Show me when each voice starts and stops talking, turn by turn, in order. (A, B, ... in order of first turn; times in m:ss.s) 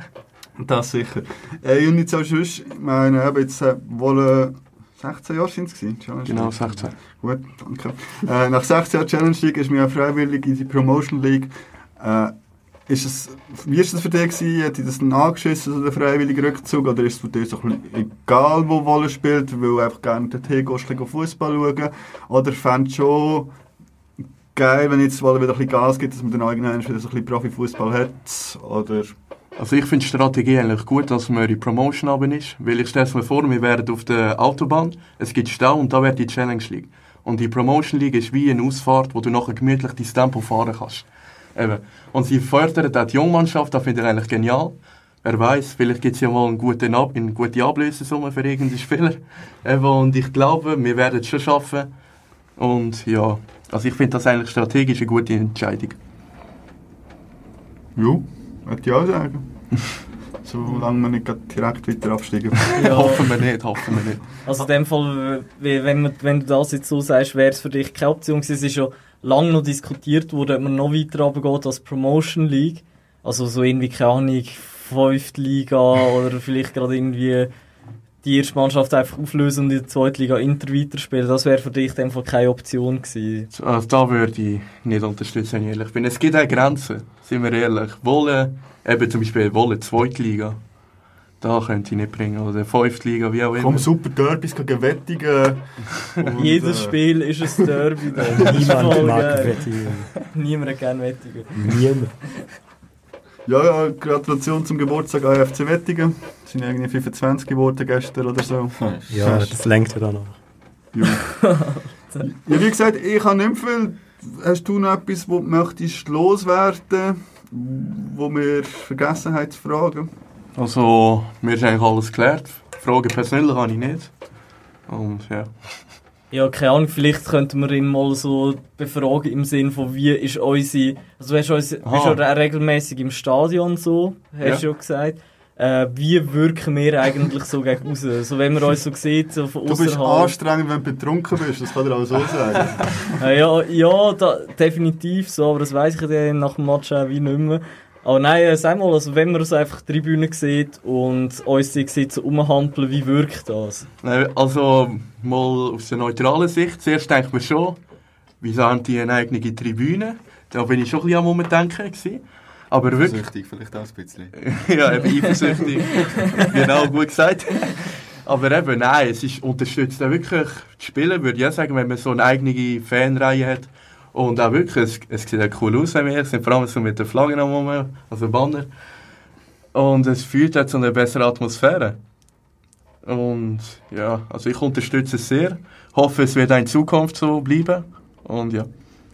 0:00.6-0:12.3 A
0:06.2-0:07.0 B
0:12.9-0:23.5 A
0:24.5-0:29.1 A
0:29.6-0:51.9 B
0:52.6-0:56.0 B
0:58.0-0:59.4 A
1:00.4-1:03.3 A
1:02.7-1:04.4 B
1:02.7-1:03.3 C
1:04.4-1:17.5 C
1:18.2-1:23.5 C
1:23.5-1:30.6 B
1:31.4-1:33.9 B
1:33.6-1:37.0 A
1:36.4-1:41.8 C
1:37.6-1:38.9 A
1:38.4-1:40.1 D
1:41.6-1:42.1 D
1:43.4-1:49.5 A
1:48.8-1:49.5 E
1:49.1-1:50.4 D
1:50.9-1:51.3 A
1:51.0-1:52.2 C
1:52.2-2:00.1 A
2:00.6-2:04.1 B
2:04.9-2:05.5 B
2:06.3-2:20.3 C
2:11.8-2:12.2 B
2:19.7-2:23.2 A
2:23.2-2:33.9 C
2:34.0-2:37.8 B
2:38.4-2:43.2 B
2:42.9-2:44.4 E
2:44.4-2:58.7 B
2:59.7-3:02.0 B
3:03.0-3:08.7 B